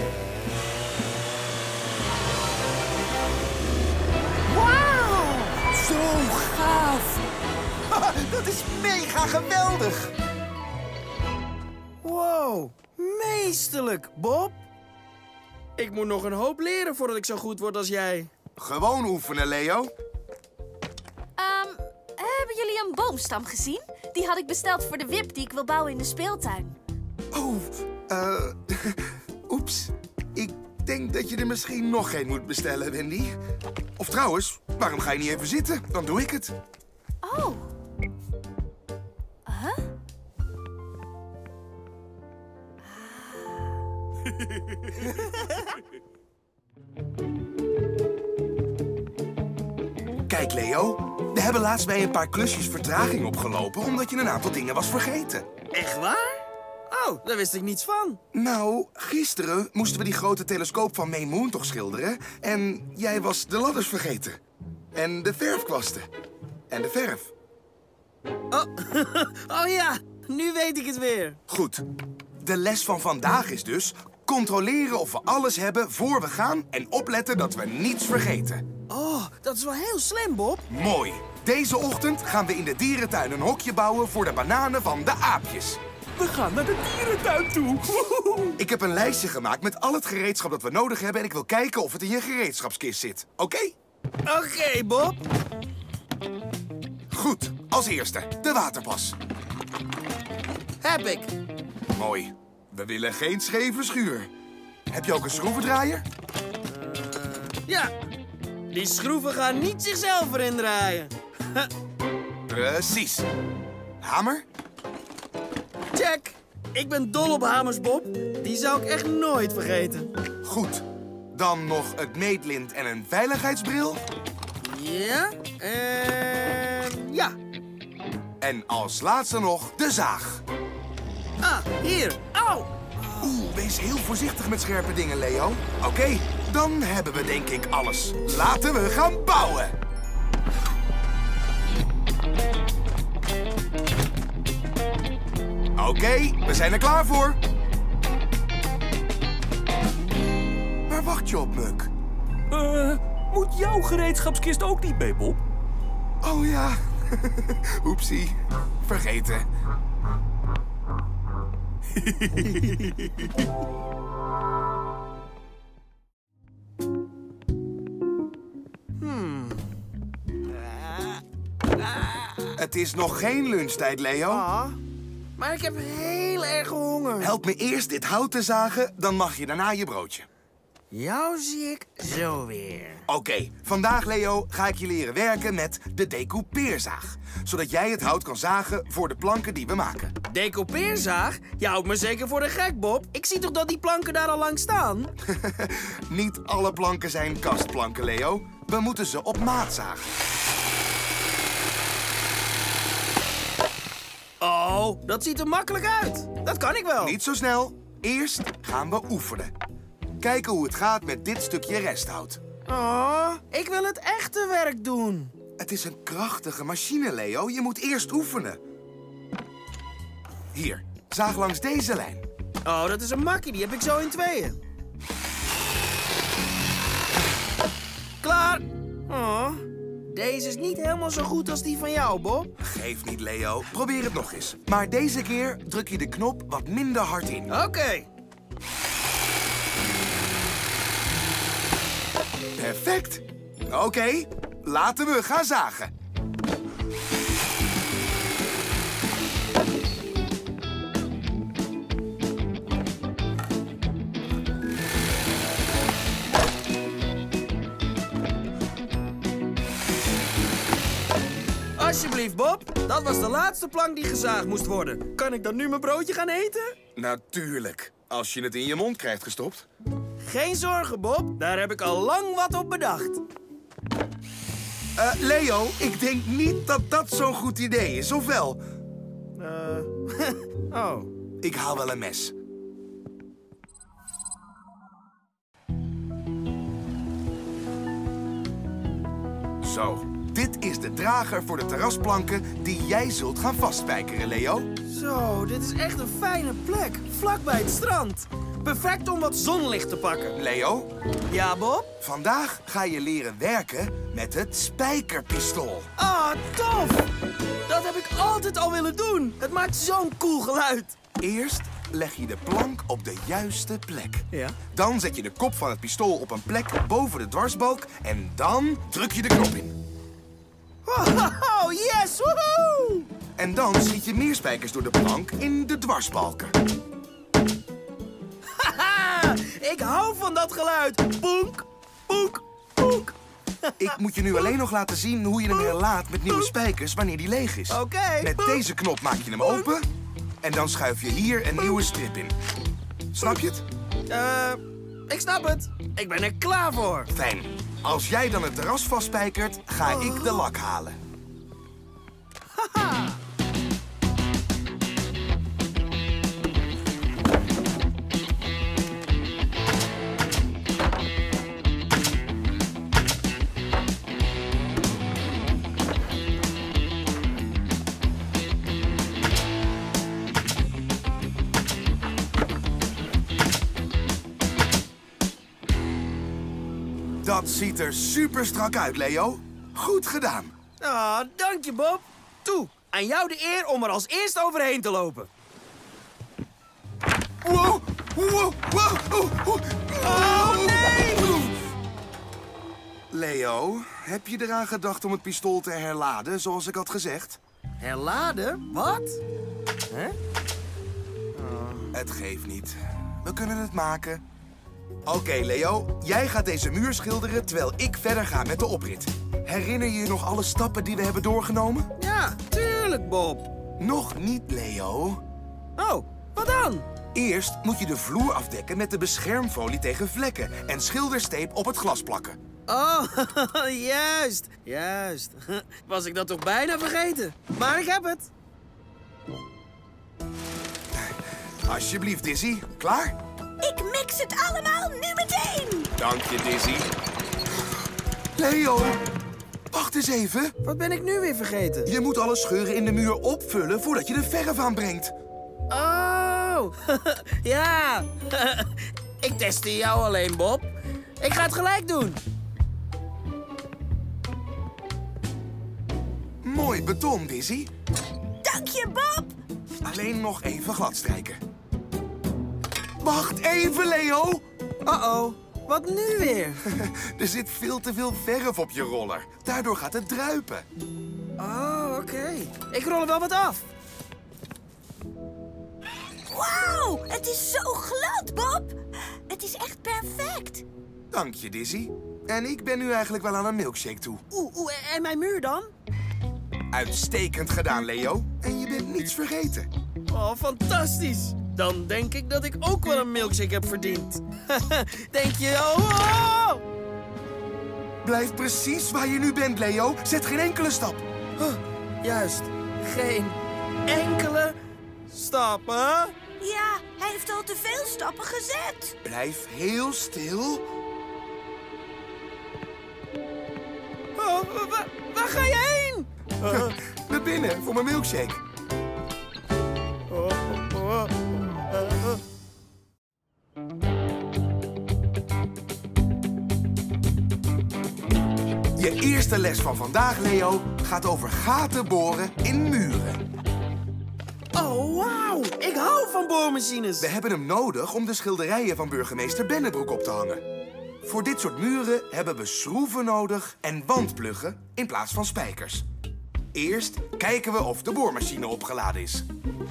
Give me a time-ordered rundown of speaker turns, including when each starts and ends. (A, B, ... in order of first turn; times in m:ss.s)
0:04.5-0:05.5 A
0:07.9-0:10.1 B
0:12.0-0:14.6 A
0:15.8-0:18.3 A
0:18.6-0:19.9 B
0:21.4-0:26.8 C
0:27.3-0:33.4 B
0:34.0-0:36.6 B
0:37.2-0:37.7 C
0:39.5-0:39.9 C
0:42.8-0:43.7 C
0:50.3-0:55.5 B
0:55.7-0:58.2 A
0:58.3-1:04.4 B
1:05.0-1:06.1 B
1:06.7-1:07.3 B
1:08.5-1:11.4 A
1:11.5-1:11.8 B
1:12.4-1:18.6 B
1:18.9-1:20.6 A
1:20.7-1:25.8 B
1:26.2-1:28.5 D
1:28.6-1:33.8 B
1:34.3-1:35.2 A
1:37.1-1:39.2 B
1:40.8-1:41.3 A
1:41.9-1:44.3 B
1:44.9-1:46.0 B
1:46.7-1:47.9 A
1:48.7-1:51.7 A
1:52.5-1:53.3 B
1:54.0-1:54.4 B
1:55.9-2:00.1 A
2:00.4-2:04.0 B
2:04.6-2:07.4 A
2:08.4-2:10.4 B
2:11.4-2:13.4 A
2:13.2-2:19.8 B
2:25.8-2:27.4 B
2:30.9-2:31.9 B
2:32.5-2:35.4 D
2:36.2-2:39.5 B
2:42.0-2:43.3 D
2:49.0-2:49.7 A
2:50.4-2:51.2 A
2:51.7-2:52.6 A
2:52.6-2:54.5 B
2:54.3-2:54.8 A
2:55.4-2:57.3 A
2:57.2-3:00.3 B
3:00.9-3:03.0 A
3:03.1-3:10.1 B
3:10.3-3:15.1 A
3:15.2-3:20.1 B
3:24.4-3:27.2 A
3:27.0-3:29.5 B
3:30.2-3:32.4 B
3:32.7-3:35.3 A
3:35.6-3:38.6 B
3:40.5-3:42.2 B
3:42.6-3:44.6 A
3:48.2-3:52.5 A
3:52.6-3:57.5 B
3:57.5-3:58.1 A
4:02.6-4:05.9 B
4:21.8-4:26.8 A
4:27.0-4:29.7 B
4:30.2-4:33.2 A
4:35.0-4:38.6 B
4:39.4-4:41.1 A
4:41.4-4:42.3 B
4:49.6-4:54.7 B
4:54.9-5:00.4 A
5:00.3-5:00.9 B
5:01.3-5:01.9 A
5:02.0-5:05.9 B
5:06.0-5:07.1 A
5:07.7-5:11.0 A
5:11.2-5:19.8 B
5:14.3-5:14.6 A
5:20.9-5:23.1 A
5:23.4-5:26.6 B
5:28.5-5:34.5 A
5:33.8-5:39.9 B
5:35.5-5:35.8 A
5:37.7-5:38.6 A
5:40.4-5:42.4 B
5:43.1-5:43.6 B
5:44.1-5:47.1 A
5:47.1-5:51.0 B
5:49.8-5:50.5 A
5:52.5-5:53.2 A
6:17.2-6:20.5 B
6:20.8-6:25.3 A
6:27.4-6:31.5 B
6:30.0-6:31.6 A
6:33.1-6:37.4 B
6:37.8-6:39.2 A
6:39.9-6:40.2 A
6:41.4-6:41.9 A
6:41.9-6:44.2 B
6:45.1-6:51.9 B
6:52.0-6:53.5 A
6:53.8-6:55.2 B
6:55.8-6:56.9 A
6:57.1-7:02.4 B
7:02.7-7:08.3 A
7:10.9-7:13.2 B
7:13.6-7:15.9 C
7:16.0-7:16.9 B
7:18.4-7:19.0 B
7:19.7-7:20.6 B
7:20.6-7:21.9 A
7:21.9-7:25.1 B
7:25.7-7:32.2 A
7:36.4-7:37.7 B
7:38.4-7:39.3 C
7:39.8-7:41.4 B
7:43.0-7:44.4 B
7:44.8-7:46.6 A
7:46.7-7:50.7 B
7:51.4-7:53.6 A
7:56.3-7:58.8 C
7:59.3-8:00.6 C
8:01.1-8:04.2 B
8:04.3-8:05.7 A
8:06.7-8:09.7 B
8:10.1-8:16.6 A
8:18.0-8:21.0 B
8:21.4-8:24.6 A
8:25.1-8:26.2 A
8:26.4-8:28.9 C
8:29.0-8:30.6 B
8:34.2-8:36.7 A
8:36.4-8:38.4 B
8:40.1-8:42.2 A
8:48.8-8:53.2 B
8:54.6-8:57.1 A
8:57.0-9:00.4 B
9:01.0-9:05.9 B
9:06.5-9:09.3 B